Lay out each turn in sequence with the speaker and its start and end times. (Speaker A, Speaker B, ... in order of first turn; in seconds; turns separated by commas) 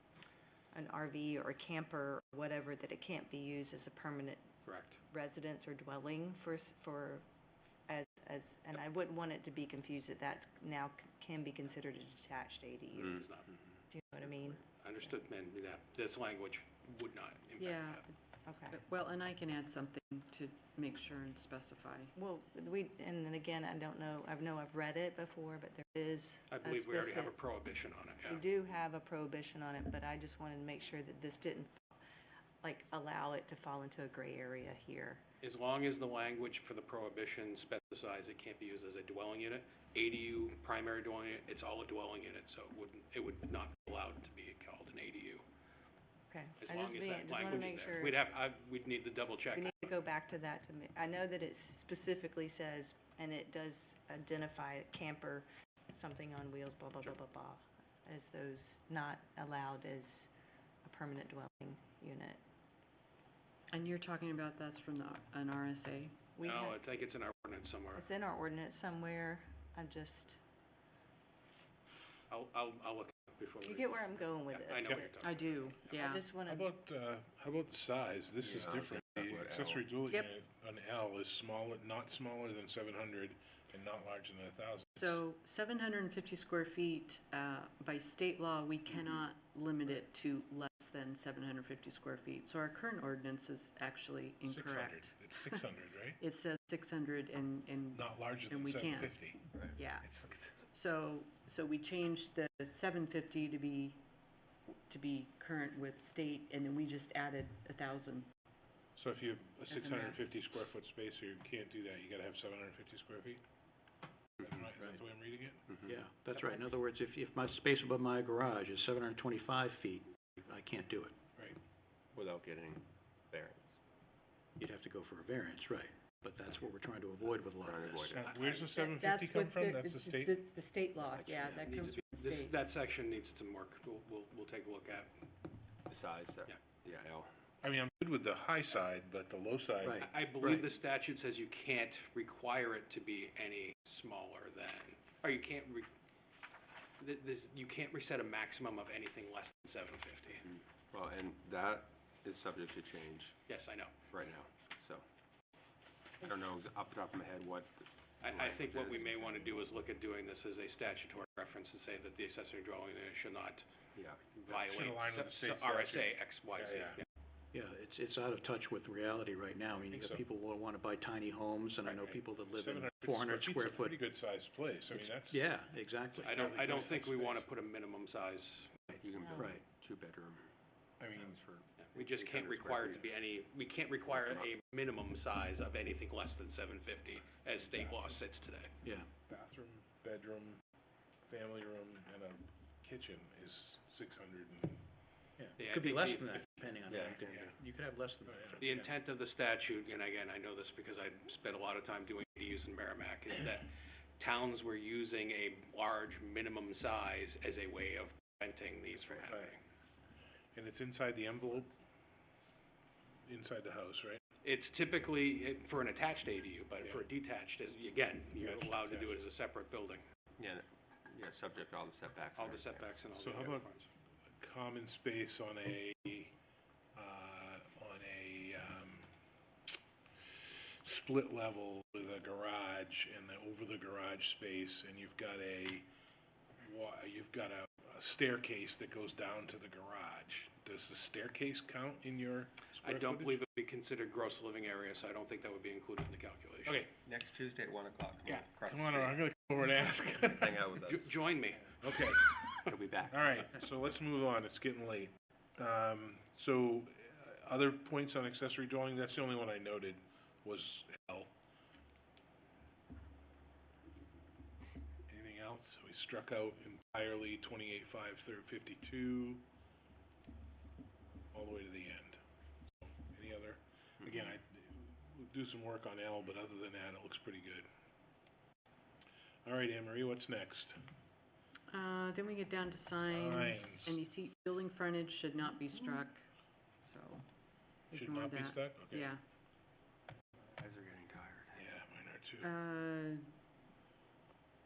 Speaker A: 0.7-4.4, Speaker B: 4.6-5.0, Speaker A: 5.1-7.2, Speaker A: 7.9-13.3, Speaker B: 13.1-13.5, Speaker A: 13.9-15.1, Speaker C: 14.2-14.6, Speaker B: 14.8-18.0, Speaker D: 17.6-18.1, Speaker A: 18.4-18.8, Speaker D: 18.7-22.1, Speaker A: 22.1-27.3, Speaker B: 26.5-28.4, Speaker A: 28.3-32.0, Speaker A: 32.6-35.2, Speaker B: 35.4-45.4, Speaker A: 46.3-48.2, Speaker B: 46.6-49.9, Speaker A: 49.5-60.3, Speaker A: 60.8-62.4, Speaker D: 63.7-66.2, Speaker A: 66.3-66.9, Speaker B: 66.4-68.0, Speaker A: 67.9-70.4, Speaker B: 72.3-75.5, Speaker A: 73.6-76.7, Speaker E: 74.8-75.1, Speaker D: 75.2-76.3, Speaker E: 76.5-85.2, Speaker C: 78.4-79.9, Speaker D: 80.0-80.3, Speaker D: 85.0-95.6, Speaker C: 88.9-89.2, Speaker E: 94.4-96.2, Speaker D: 96.2-100.1, Speaker E: 97.9-100.6, Speaker D: 100.7-104.0, Speaker D: 104.9-108.3, Speaker E: 109.0-113.4, Speaker D: 109.7-110.4, Speaker E: 114.4-115.7, Speaker F: 115.8-121.1, Speaker D: 116.3-116.8, Speaker C: 122.1-123.8, Speaker F: 124.6-128.2, Speaker C: 127.6-128.2, Speaker E: 128.1-130.4, Speaker B: 128.2-128.7, Speaker D: 128.7-132.5, Speaker C: 131.0-131.8, Speaker B: 131.7-135.1, Speaker C: 135.9-137.3, Speaker E: 137.6-140.1, Speaker F: 139.8-140.7, Speaker B: 140.0-145.9, Speaker B: 147.0-150.4, Speaker C: 150.4-153.3, Speaker B: 153.5-153.9, Speaker C: 154.1-155.0, Speaker C: 156.2-159.3, Speaker B: 158.2-163.7, Speaker C: 163.9-164.7, Speaker B: 164.5-167.0, Speaker E: 164.6-167.0, Speaker F: 167.5-174.0, Speaker E: 169.9-170.2, Speaker E: 172.0-175.5, Speaker F: 174.9-177.0, Speaker E: 176.1-177.4, Speaker B: 176.2-178.8, Speaker F: 178.9-179.6, Speaker C: 178.9-180.4, Speaker A: 179.2-179.6, Speaker E: 181.0-181.4, Speaker C: 181.2-183.1, Speaker B: 181.8-188.7, Speaker C: 184.0-184.5, Speaker E: 187.6-188.2, Speaker F: 188.8-189.1, Speaker E: 189.3-190.6, Speaker E: 191.3-194.8, Speaker F: 195.4-198.9, Speaker B: 195.6-196.5, Speaker C: 196.9-197.5, Speaker E: 198.2-198.6, Speaker B: 198.6-209.6, Speaker E: 209.2-209.6, Speaker E: 210.5-211.7, Speaker E: 213.3-214.2, Speaker B: 214.4-220.0, Speaker E: 218.4-219.2, Speaker C: 220.4-223.0, Speaker B: 222.3-223.9, Speaker E: 223.2-223.7, Speaker E: 224.4-226.3, Speaker E: 226.9-229.1, Speaker E: 230.2-235.8, Speaker E: 236.6-243.4, Speaker B: 242.8-246.8, Speaker E: 246.6-246.9, Speaker C: 247.0-249.2, Speaker E: 248.3-250.7, Speaker C: 250.2-251.2, Speaker B: 250.8-253.1, Speaker E: 251.8-261.3, Speaker E: 265.1-269.4, Speaker E: 271.3-272.2, Speaker E: 272.8-277.7, Speaker E: 279.4-280.8, Speaker D: 281.7-286.2, Speaker E: 282.9-284.0, Speaker D: 286.9-287.2, Speaker D: 287.9-289.2, Speaker E: 287.9-289.1, Speaker C: 290.6-291.6, Speaker E: 291.6-292.5, Speaker D: 292.4-293.2